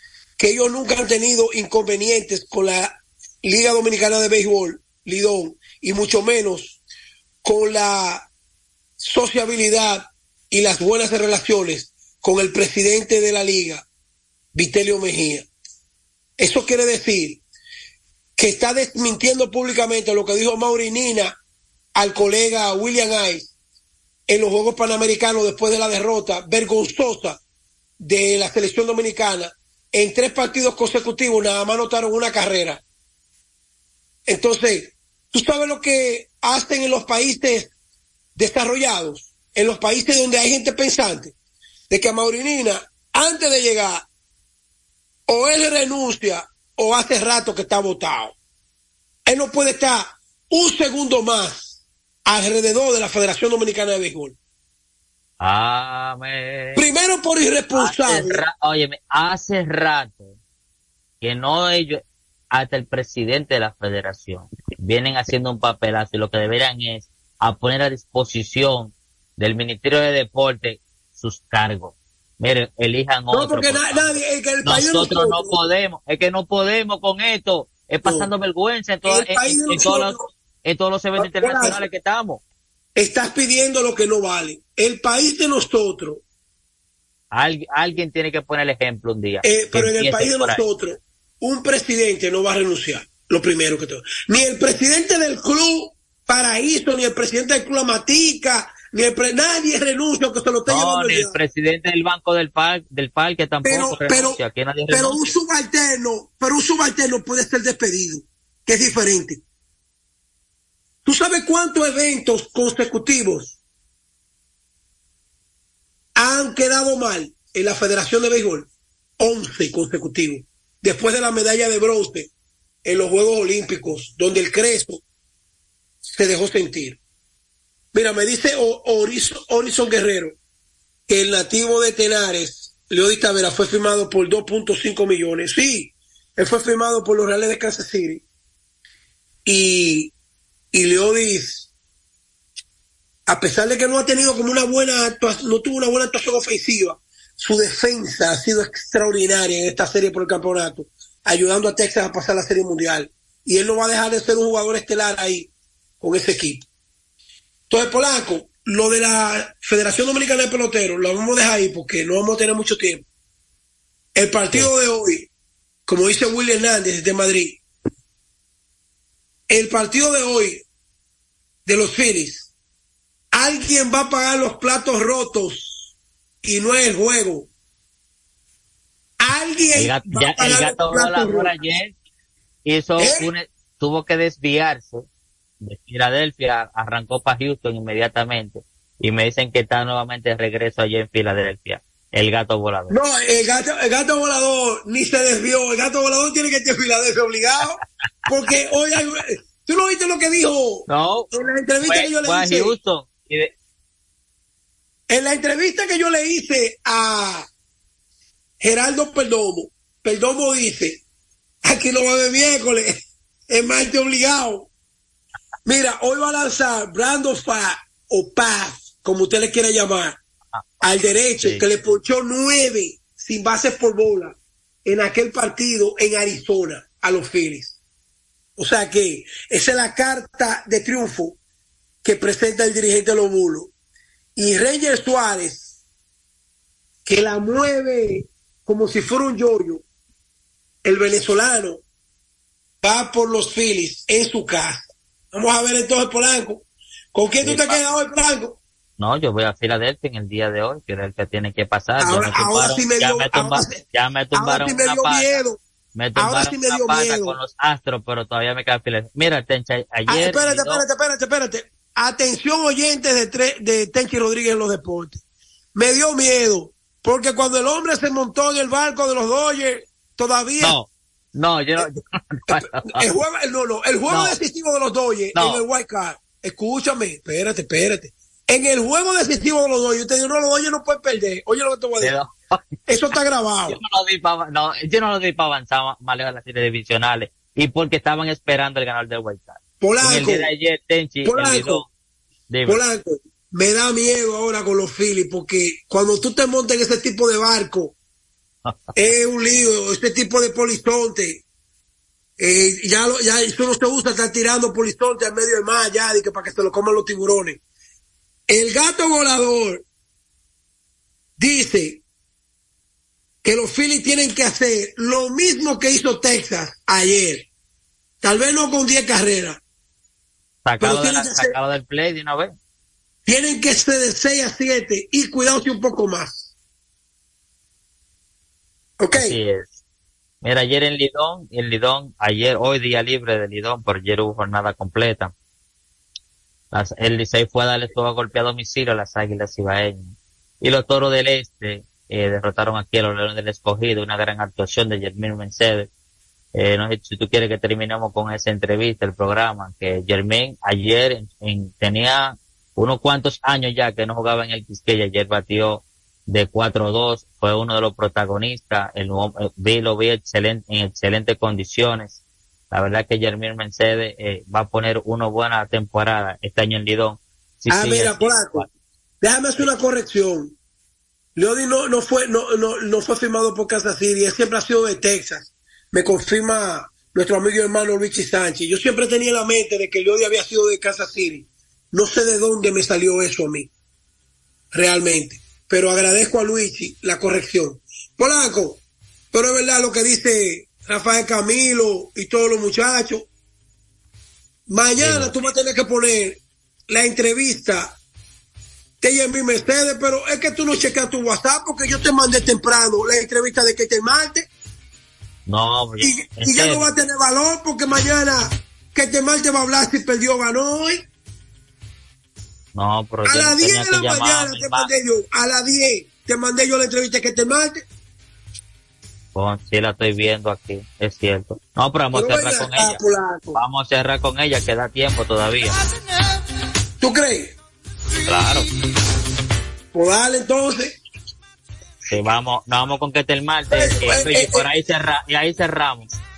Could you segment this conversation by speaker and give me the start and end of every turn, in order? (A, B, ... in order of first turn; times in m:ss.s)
0:00.4-0:06.8 A
0:07.4-0:08.2 A
0:09.0-0:13.8 A
0:14.5-0:15.5 A
0:16.4-0:17.4 A
0:18.4-0:21.4 A
0:21.9-0:23.5 A
0:24.3-0:27.4 A
0:28.0-0:32.8 A
0:34.2-0:37.7 A
0:38.4-0:41.3 A
0:41.9-0:44.0 A
0:45.3-0:48.3 A
0:49.3-0:54.3 A
0:55.4-0:56.9 B
0:56.8-0:58.4 A
0:57.7-1:00.4 B
1:01.2-1:22.4 B
1:13.3-1:15.5 A
1:19.0-1:20.2 A
1:21.2-1:21.8 A
1:23.0-1:26.2 A
1:27.3-1:30.6 B
1:29.4-1:41.3 A
1:40.7-1:45.3 B
1:43.6-1:49.4 A
1:51.0-1:53.6 A
1:56.2-1:58.7 A
1:59.2-2:02.3 A
2:02.8-2:05.0 A
2:06.0-2:07.0 A
2:07.9-2:10.4 A
2:11.1-2:18.2 A
2:19.4-2:20.1 A
2:20.7-2:21.7 A
2:23.3-2:35.5 A
2:36.0-2:36.6 A
2:37.7-2:43.0 A
2:44.2-2:45.3 A
2:45.9-2:47.6 A
2:49.5-2:50.6 A
2:51.6-2:52.5 A
2:53.3-2:55.9 A
2:56.4-2:57.5 A
2:59.2-3:01.6 A
2:59.7-3:01.9 B
3:02.6-3:05.0 B
3:03.0-3:03.3 A
3:05.6-3:13.0 B
3:12.9-3:22.8 A
3:20.9-3:21.3 B
3:21.8-3:23.5 B
3:25.1-3:27.4 A
3:28.6-3:31.0 A
3:31.6-3:34.7 A
3:35.6-3:40.2 A
3:40.5-3:40.8 B
3:40.8-3:47.8 A
3:41.4-3:41.7 B
3:48.6-3:51.4 A
3:52.0-3:53.7 A
3:54.4-3:55.8 A
3:57.0-3:59.8 A
4:00.8-4:01.8 A
4:02.8-4:08.6 A
4:07.4-4:07.8 B
4:09.0-4:15.4 B
4:12.0-4:15.6 A
4:15.9-4:20.8 B
4:16.2-4:17.4 A
4:20.1-4:25.2 A
4:25.7-4:30.8 A
4:30.6-4:33.1 B
4:32.5-4:42.2 A
4:34.1-4:34.4 B
4:35.3-4:35.6 B
4:42.0-4:42.8 B
4:42.9-4:43.8 A
4:43.7-4:51.8 B
4:49.8-4:50.5 A
4:51.2-4:51.8 A
4:52.5-4:52.8 B
4:52.6-4:57.9 A
4:59.0-5:01.4 A
5:02.4-5:07.6 A
5:08.5-5:09.8 A
5:11.4-5:12.0 A
5:13.4-5:17.4 A
5:18.2-5:19.6 A
5:20.6-5:22.5 B
5:20.8-5:21.5 A
5:23.2-5:26.5 A
5:29.0-5:29.4 A
5:29.1-5:29.8 B
5:30.4-5:35.3 B
5:36.7-5:45.9 B
5:46.5-6:02.2 B
6:02.7-6:08.7 B
6:07.7-6:08.6 A
6:09.2-6:10.5 A
6:11.4-6:23.7 A
6:24.7-6:28.8 A
6:29.3-6:33.2 A
6:34.7-6:38.0 A
6:35.0-6:35.4 B
6:39.0-6:44.5 A
6:45.4-6:46.9 B
6:46.0-6:51.0 A
6:52.7-6:54.9 B
6:53.2-6:57.8 A
6:59.3-7:03.0 B
7:02.1-7:03.6 A
7:03.5-7:05.8 B
7:07.0-7:07.5 A
7:08.2-7:08.7 B
7:09.9-7:11.0 A
7:12.1-7:16.1 B
7:13.7-7:14.6 A